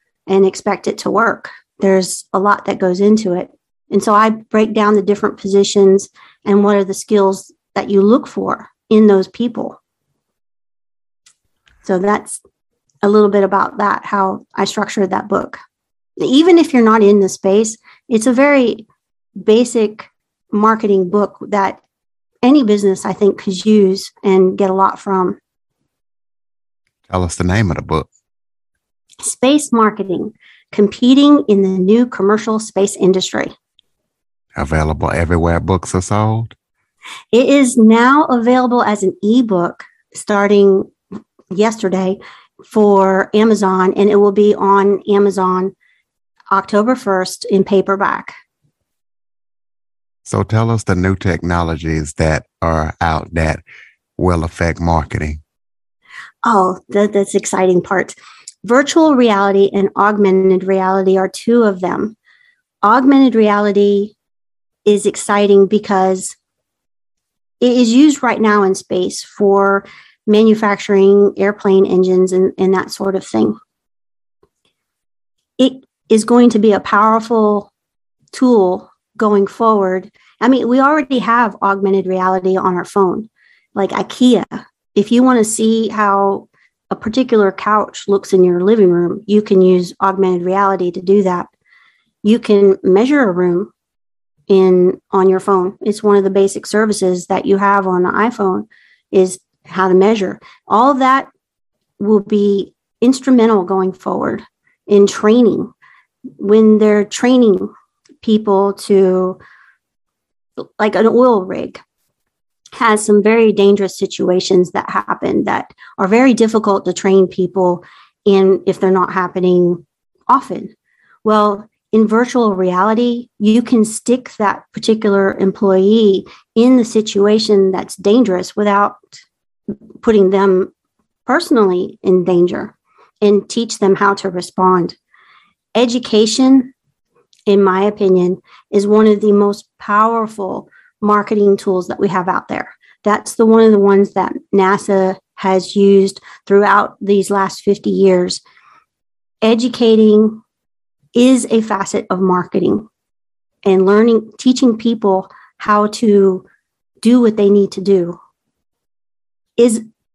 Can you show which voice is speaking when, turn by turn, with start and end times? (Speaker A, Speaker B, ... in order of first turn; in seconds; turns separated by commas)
Speaker A: 0.3-9.8, Speaker A: 11.8-12.4, Speaker A: 13.0-15.6, Speaker A: 16.2-18.9, Speaker A: 19.4-21.8, Speaker A: 22.4-25.4, Speaker B: 27.1-28.1, Speaker A: 29.2-33.5, Speaker B: 34.6-36.5, Speaker A: 37.3-40.9, Speaker A: 41.5-45.7, Speaker A: 46.5-48.3, Speaker B: 50.3-53.6, Speaker B: 54.2-55.4, Speaker A: 56.5-62.2, Speaker A: 62.8-64.2, Speaker A: 64.8-66.4, Speaker A: 67.6-73.6, Speaker A: 75.6-77.7, Speaker A: 78.3-91.5, Speaker A: 92.2-93.7, Speaker A: 94.5-101.3, Speaker A: 102.0-105.7, Speaker A: 106.4-107.7, Speaker A: 108.2-109.4, Speaker A: 110.8-111.8, Speaker A: 112.8-120.7, Speaker A: 121.2-129.2, Speaker A: 130.0-130.7, Speaker A: 131.3-135.0, Speaker A: 135.8-136.7, Speaker A: 137.5-148.4, Speaker A: 149.4-150.4, Speaker A: 151.1-152.9, Speaker A: 153.7-156.5, Speaker A: 157.0-158.2